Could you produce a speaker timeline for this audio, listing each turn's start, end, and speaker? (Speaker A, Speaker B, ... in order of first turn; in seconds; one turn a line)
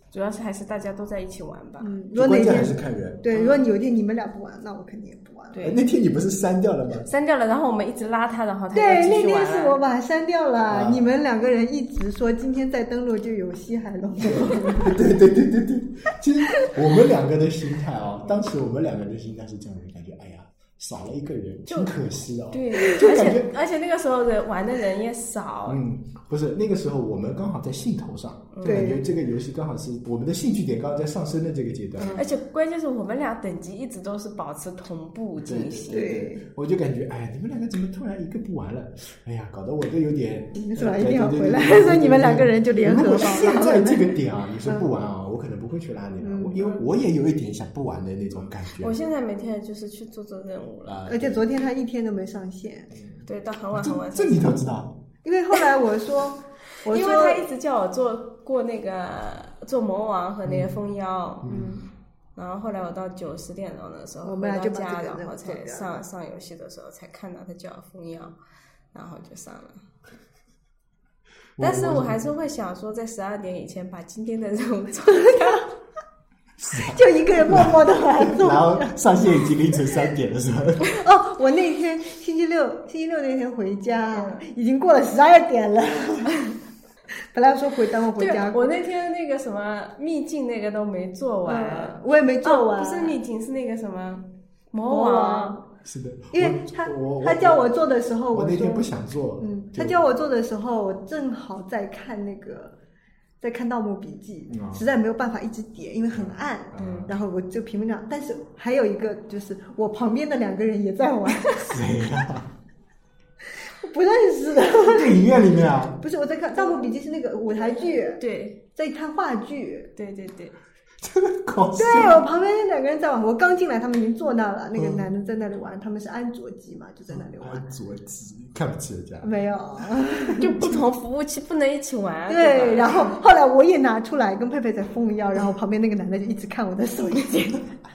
Speaker A: 0.1-2.0
Speaker B: 1.8-5.7
Speaker C: 2.1-3.2
Speaker A: 3.3-3.7
Speaker A: 5.5-5.8
Speaker C: 5.6-7.1
Speaker A: 7.0-9.8
Speaker B: 8.7-15.0
Speaker C: 10.7-11.1
Speaker C: 14.2-23.5
Speaker A: 21.7-21.9
Speaker A: 22.5-25.8
Speaker C: 25.6-32.2
Speaker A: 28.5-28.9
Speaker B: 28.6-29.1
Speaker A: 32.1-36.1
Speaker C: 35.4-49.0
Speaker B: 35.9-36.4
Speaker B: 40.5-44.9
Speaker B: 46.2-46.8
Speaker A: 48.8-51.1
Speaker C: 50.8-51.5
Speaker B: 51.1-52.9
Speaker C: 52.9-55.0
Speaker A: 53.2-54.6
Speaker B: 55.2-57.5
Speaker A: 56.9-61.7
Speaker C: 60.4-60.7
Speaker C: 61.4-61.9
Speaker A: 62.4-68.3
Speaker B: 64.2-66.0
Speaker A: 68.9-69.8
Speaker C: 71.6-72.2
Speaker A: 71.6-75.7
Speaker C: 76.6-81.0
Speaker B: 76.8-79.0
Speaker B: 80.8-86.4
Speaker A: 84.1-84.4
Speaker B: 87.1-88.7
Speaker A: 88.2-95.6
Speaker B: 91.5-93.2
Speaker B: 94.8-95.6
Speaker C: 95.8-97.8
Speaker B: 96.3-98.9
Speaker C: 98.3-100.0
Speaker B: 99.4-102.8
Speaker B: 103.4-111.8
Speaker C: 104.5-104.9
Speaker C: 106.1-107.1
Speaker C: 111.7-112.5
Speaker B: 113.7-115.2
Speaker C: 114.7-116.0
Speaker B: 116.0-118.2
Speaker A: 116.5-116.9
Speaker A: 118.2-118.6
Speaker B: 118.7-119.9
Speaker A: 120.0-120.5
Speaker C: 121.0-122.3
Speaker B: 121.8-127.7
Speaker C: 124.8-125.1
Speaker C: 127.1-130.8
Speaker B: 129.2-130.6
Speaker A: 130.3-133.1
Speaker B: 132.3-137.7